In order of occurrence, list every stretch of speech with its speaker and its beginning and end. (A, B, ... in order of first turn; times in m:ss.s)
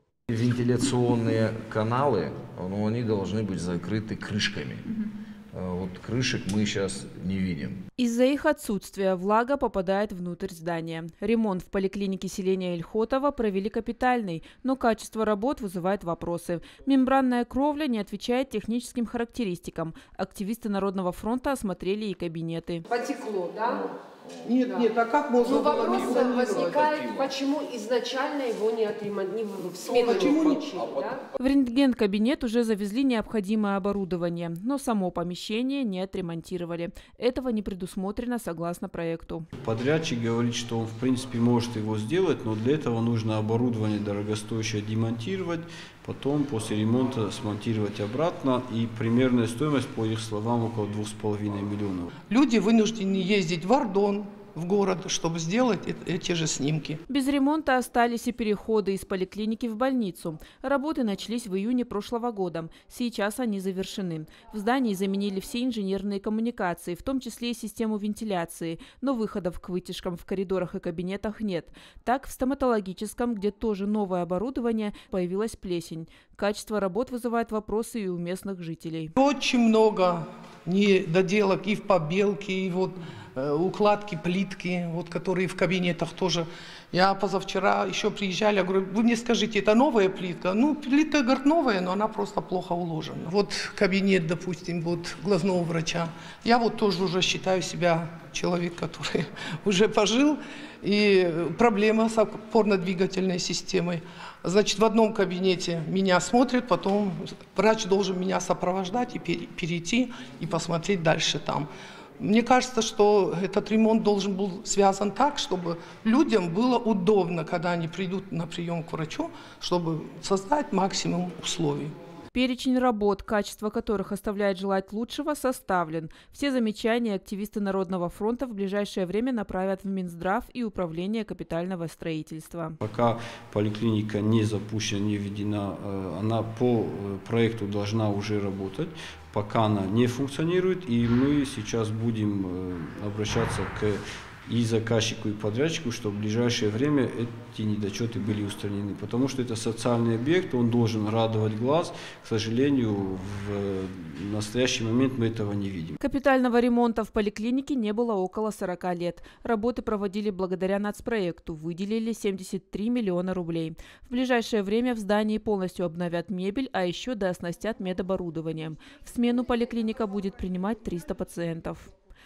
0:00.3-0:07.8 A
0:08.0-0:22.9 B
0:22.9-0:24.0 C
0:24.4-0:27.3 D
0:24.6-0:24.9 C
0:25.4-0:31.2 C
0:29.8-0:30.8 D
0:31.4-0:39.5 B
0:39.6-0:52.1 E
0:52.3-0:57.0 D
0:57.1-1:19.1 B
1:19.2-1:51.7 D
1:52.2-2:01.9 D
2:02.3-2:12.8 B
2:12.8-2:36.0 E
2:36.0-2:51.9 B